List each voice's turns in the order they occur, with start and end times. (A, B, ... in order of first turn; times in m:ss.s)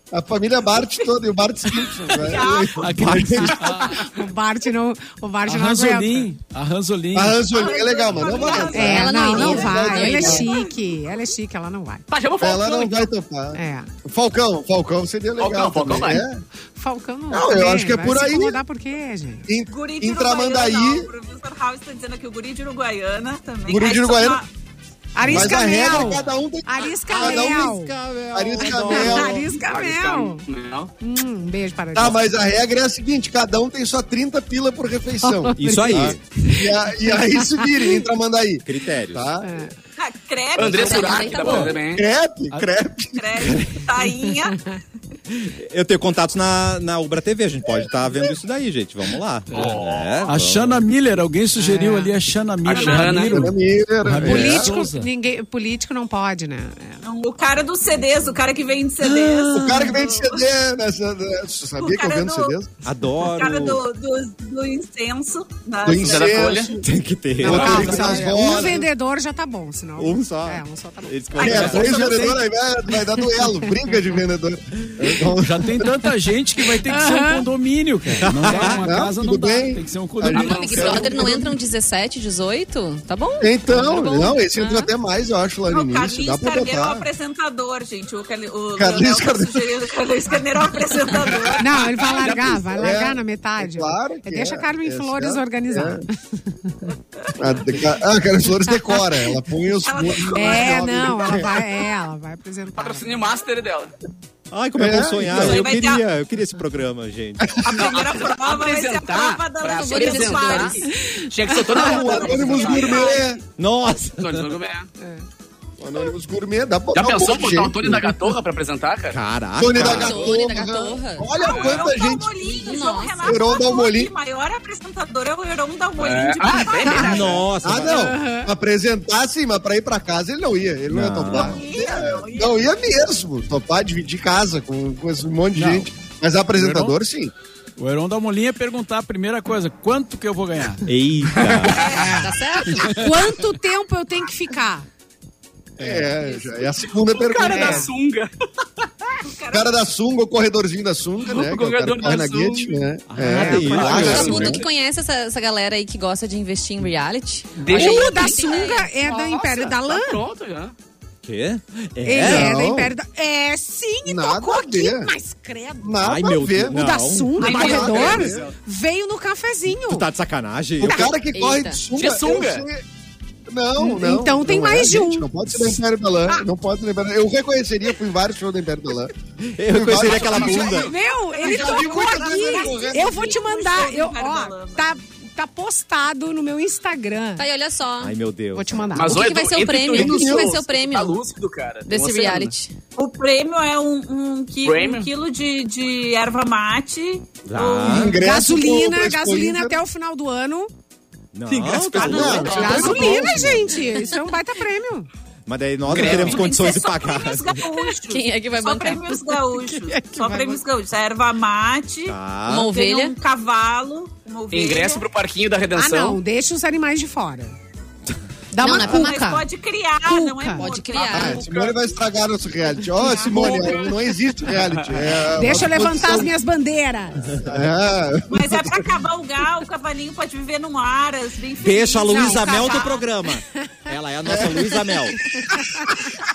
0:00.1-0:03.6 A
0:01.8-0:02.9 B
0:02.7-0:04.0 C
0:03.0-0:03.3 D
0:03.4-0:06.3 E
0:03.8-0:04.1 F
0:05.4-0:07.4 C
0:07.1-0:10.4 A
0:07.5-0:11.1 B
0:08.4-0:12.0 E
0:08.8-0:10.5 G
0:12.1-0:13.1 F
0:12.4-0:16.4 A
0:13.5-0:13.9 E
0:15.4-0:16.2 F
0:16.7-0:19.4 E
0:17.3-0:18.6 A
0:19.5-0:21.1 A
0:19.7-0:24.5 B
0:23.7-0:24.4 A
0:25.1-0:27.9 E
0:25.2-0:26.0 D
0:25.2-0:27.7 A
0:27.1-0:29.5 D
0:28.3-0:29.3 A
0:28.6-0:30.4 E
0:28.9-0:30.9 F
0:29.1-0:29.4 B
0:31.0-0:32.2 E
0:31.9-0:39.7 A
0:35.2-0:38.0 E
0:35.6-0:36.2 D
0:38.6-0:39.4 D
0:39.4-0:39.7 E
0:40.0-0:41.7 B
0:40.6-0:42.0 F
0:40.7-0:41.8 G
0:41.9-0:43.6 A
0:43.1-0:44.6 B
0:45.6-0:50.8 D
0:47.6-0:48.2 A
0:49.5-0:53.5 C
0:49.5-0:50.3 F
0:51.6-0:52.2 E
0:52.6-0:53.5 F
0:52.8-0:53.3 E
0:53.2-0:54.8 A
0:54.0-0:55.1 C
0:54.2-0:57.0 E
0:57.0-1:00.4 B
0:59.0-0:59.9 D
0:59.5-1:02.8 A
1:01.8-1:02.5 B
1:02.8-1:03.8 D
1:03.2-1:06.7 B
1:05.8-1:06.8 A
1:05.9-1:06.7 F
1:06.8-1:08.6 D
1:07.4-1:08.8 A
1:07.4-1:11.8 E
1:07.5-1:08.0 F
1:10.0-1:12.1 D
1:11.3-1:12.2 B
1:11.4-1:15.9 A
1:11.5-1:11.9 F
1:11.8-1:12.3 C
1:15.3-1:21.0 C
1:16.8-1:17.5 E
1:18.2-1:18.9 D
1:18.5-1:21.5 A
1:20.3-1:21.3 F
1:20.3-1:24.8 G
1:23.4-1:27.1 A
1:25.7-1:31.9 B
1:28.8-1:29.7 A
1:31.1-1:33.0 F
1:31.6-1:36.8 E
1:32.8-1:36.0 A
1:37.3-1:41.6 A
1:38.7-1:39.3 E
1:39.8-1:41.0 B
1:40.3-1:43.2 E
1:42.8-1:43.9 F
1:44.5-1:47.7 D
1:44.8-1:45.6 A
1:45.3-1:46.0 B
1:47.6-1:50.8 B
1:47.8-1:53.2 F
1:49.6-1:50.8 G
1:50.9-1:51.8 E
1:51.7-1:53.2 B
1:51.7-1:53.4 A
1:53.6-1:54.5 D
1:54.2-1:54.9 F
1:55.8-1:58.0 A
1:56.9-1:59.2 F
1:59.1-2:00.3 D
1:59.6-2:02.3 A
1:59.7-2:01.2 G
2:01.4-2:07.3 B
2:01.5-2:01.9 F
2:02.6-2:03.3 G
2:03.2-2:04.1 A
2:06.0-2:07.5 F
2:06.4-2:08.5 E
2:07.0-2:08.1 D
2:07.6-2:17.3 A
2:10.9-2:11.6 D
2:11.3-2:12.7 B
2:15.5-2:15.9 C
2:16.5-2:17.0 C
2:17.8-2:20.9 C
2:20.8-2:22.1 D
2:21.4-2:22.1 F
2:21.7-2:22.8 B
2:22.1-2:23.0 G
2:22.9-2:24.9 E
2:25.8-2:27.9 A
2:27.0-2:28.9 F
2:27.4-2:27.9 E
2:29.2-2:29.8 B
2:29.5-2:34.6 A
2:31.2-2:34.7 F
2:33.1-2:34.5 D
2:33.3-2:38.9 G
2:37.6-2:40.7 F
2:37.7-2:40.2 E
2:41.2-2:42.6 D
2:42.0-2:46.0 E
2:42.2-2:42.9 A
2:44.0-2:45.1 A
2:45.8-2:46.8 A
2:46.0-2:47.7 D
2:46.7-2:50.1 E
2:47.4-2:48.3 B
2:47.4-2:48.5 A
2:49.9-2:51.1 D
2:50.8-2:52.8 A
2:50.8-2:51.1 E
2:51.3-2:51.8 G
2:52.0-2:52.6 F
2:53.5-2:59.1 A
2:53.8-2:55.7 E
2:59.6-3:00.9 D
2:59.7-3:03.2 A
2:59.9-3:00.9 F
3:00.6-3:07.4 E
3:01.3-3:05.0 B
3:07.4-3:08.1 G
3:08.0-3:08.7 D
3:08.5-3:09.2 E
3:08.9-3:12.5 F
3:09.0-3:11.2 G
3:09.9-3:10.5 A
3:11.9-3:12.7 G
3:13.0-3:18.2 B
3:14.6-3:15.1 F
3:17.5-3:18.2 D
3:17.8-3:19.8 A
3:18.1-3:20.7 E
3:21.3-3:22.5 D
3:21.5-3:23.3 F
3:21.9-3:23.5 B
3:22.0-3:23.5 A
3:22.4-3:25.1 E
3:25.4-3:27.6 D
3:25.9-3:26.5 F
3:26.0-3:32.2 B
3:28.1-3:29.7 G
3:30.1-3:30.6 E
3:32.0-3:32.7 D
3:32.5-3:33.1 G
3:32.7-3:35.0 B
3:34.5-3:36.2 F
3:35.7-3:37.6 E
3:38.5-3:39.4 E
3:38.6-3:39.2 G
3:38.6-3:41.8 B
3:40.0-3:40.7 E
3:40.6-3:41.7 G
3:41.0-3:46.3 A
3:42.9-3:44.0 B
3:43.0-3:43.4 E
3:44.5-3:45.1 F
3:45.3-3:47.3 E
3:47.3-3:48.8 A
3:48.3-3:53.0 B
3:51.6-3:55.2 D
3:52.0-3:53.9 E
3:54.2-3:54.6 A
3:54.5-3:56.0 E